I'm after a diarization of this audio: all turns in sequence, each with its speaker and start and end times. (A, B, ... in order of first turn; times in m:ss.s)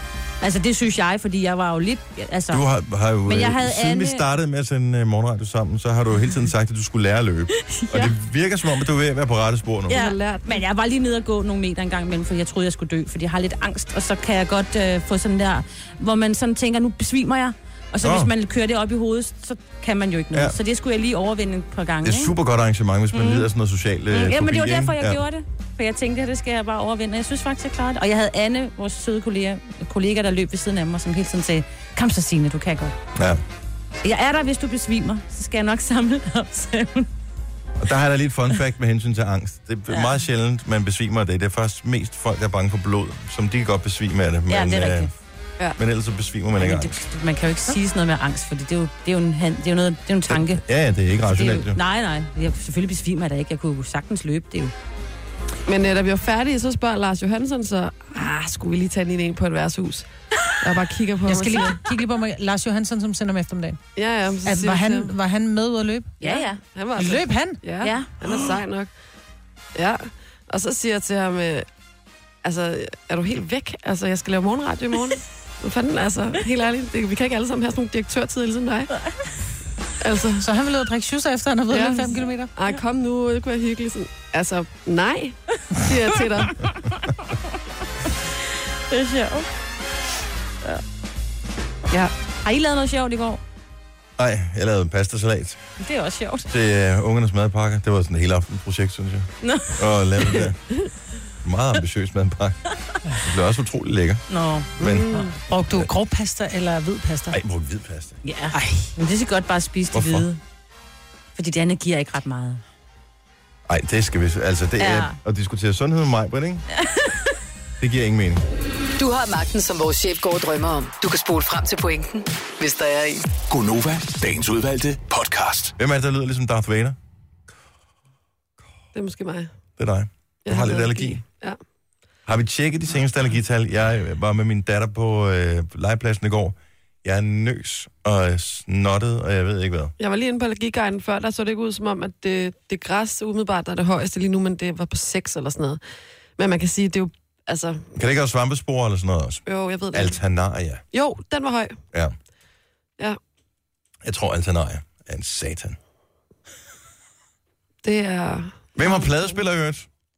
0:00.4-0:02.6 A
0:02.5-0:10.0 B
0:03.3-0:04.2 A
0:07.6-0:08.2 A
0:09.9-0:22.3 A
0:09.9-0:10.6 C
0:18.0-0:18.3 B
0:22.0-0:25.2 B
0:23.1-0:23.5 A
0:24.1-0:33.0 A
0:33.2-0:33.4 B
0:34.0-0:37.1 A
0:37.8-0:45.1 B
0:44.5-0:45.1 A
0:45.8-0:47.0 B
0:46.6-0:50.6 A
0:50.3-0:51.8 B
0:51.3-0:54.7 A
0:55.7-1:00.1 C
1:00.6-1:01.8 C
1:01.3-1:03.8 D
1:04.0-1:05.1 C
1:04.4-1:06.2 D
1:06.2-1:06.6 A
1:06.2-1:08.9 C
1:07.0-1:07.6 D
1:07.8-1:08.1 A
1:09.8-1:11.7 C
1:12.4-1:19.0 C
1:20.0-1:20.5 C
1:20.4-1:22.5 D
1:21.7-1:26.6 C
1:26.4-1:27.3 A
1:28.4-1:29.5 A
1:32.4-1:33.4 A
1:34.2-1:35.6 B
1:35.8-1:36.5 A
1:36.5-1:40.6 B
1:39.4-1:39.9 A
1:41.4-1:42.6 B
1:43.2-1:44.2 B
1:44.3-1:44.7 A
1:44.8-1:45.1 B
1:44.8-1:45.3 C
1:45.1-1:47.4 D
1:47.3-1:48.2 B
1:48.2-1:50.4 A
1:48.5-1:48.9 D
1:49.9-1:50.3 B
1:51.4-1:52.6 A
1:53.7-1:56.6 B
1:54.8-1:55.2 A
1:56.8-1:57.3 A
1:57.8-1:58.4 B
1:59.0-2:03.3 E
2:03.5-2:05.8 F
2:05.8-2:07.0 B
2:08.9-2:09.5 C
2:09.8-2:11.2 B
2:10.5-2:11.6 C
2:12.3-2:19.9 B
2:20.0-2:25.8 C
2:26.4-2:27.8 C
2:28.0-2:30.8 B
2:29.5-2:30.2 C
2:30.9-2:31.8 C
2:34.0-2:35.8 B
2:37.8-2:39.4 C
2:38.8-2:39.9 B